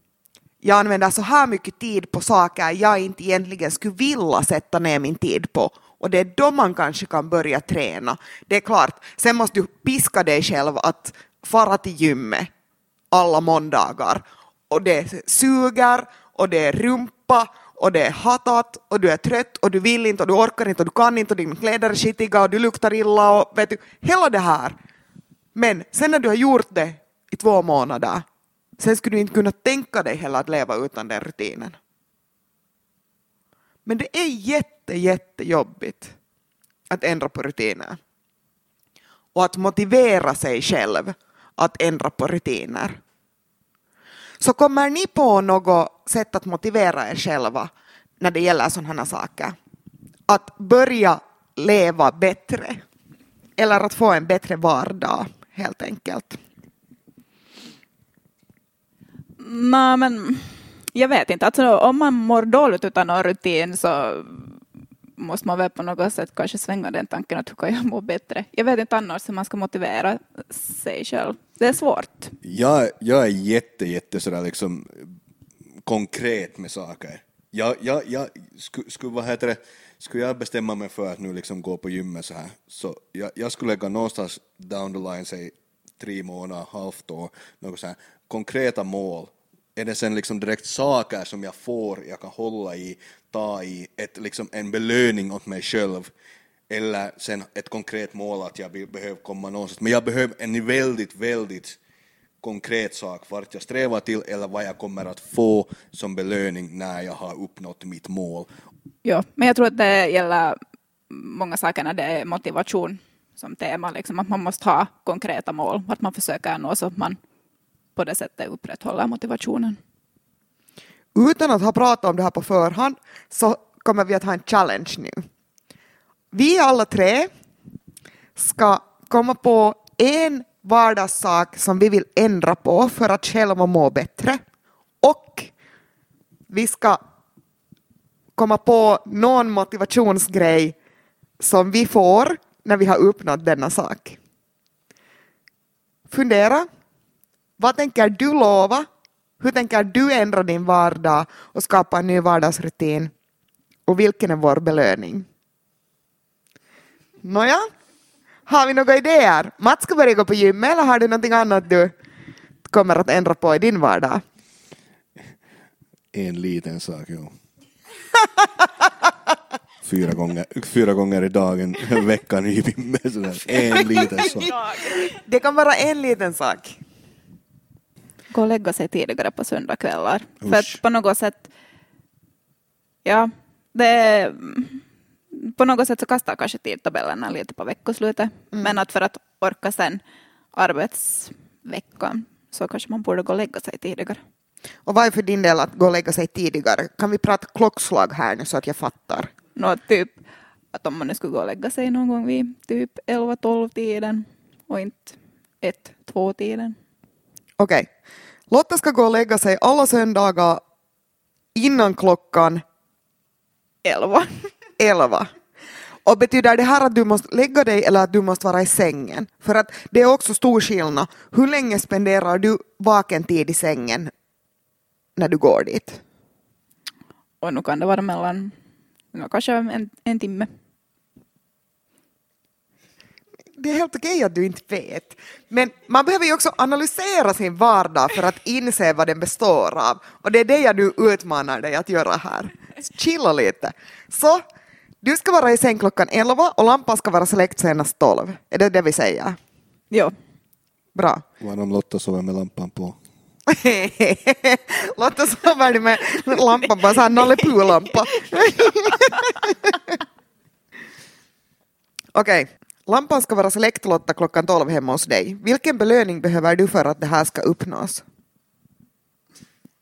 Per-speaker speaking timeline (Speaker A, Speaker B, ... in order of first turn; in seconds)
Speaker A: 0.6-12.5, 13.1-24.8, 25.6-28.2, 28.8-31.8, 33.9-36.1, 36.9-38.0, 39.4-43.0, 44.4-47.7, 48.2-49.6, 50.3-52.8, 53.6-56.4, 121.2-125.2, 126.3-127.3, 128.4-134.4, 135.0-135.5, 136.5-137.0, 138.4-140.8, 141.4-144.2, 146.1-146.7, 147.6-148.9, 149.4-153.1, 153.9-155.3, 157.2-157.7, 158.5-161.9, 162.7-164.2, 174.7-176.8, 194.9-199.3, 207.6-207.9, 208.5-210.6, 211.6-212.6, 214.8-215.3, 216.1-224.1, 225.2-226.0, 233.6-244.4, 245.0-249.4, 251.0-251.2, 253.5-260.0, 262.1-268.0
Speaker B: 59.4-64.6, 65.2-72.3, 109.0-110.6, 111.1-117.2, 118.0-119.8, 178.3-181.5, 183.0-190.0, 190.5-194.2, 199.6-200.2, 200.7-206.8, 213.8-214.3, 227.4-228.5, 229.1-230.5
Speaker C: 72.4-75.1, 75.9-96.1, 96.7-101.8, 102.4-108.5, 166.1-167.3, 169.8-174.5, 180.4-180.8, 251.4-253.0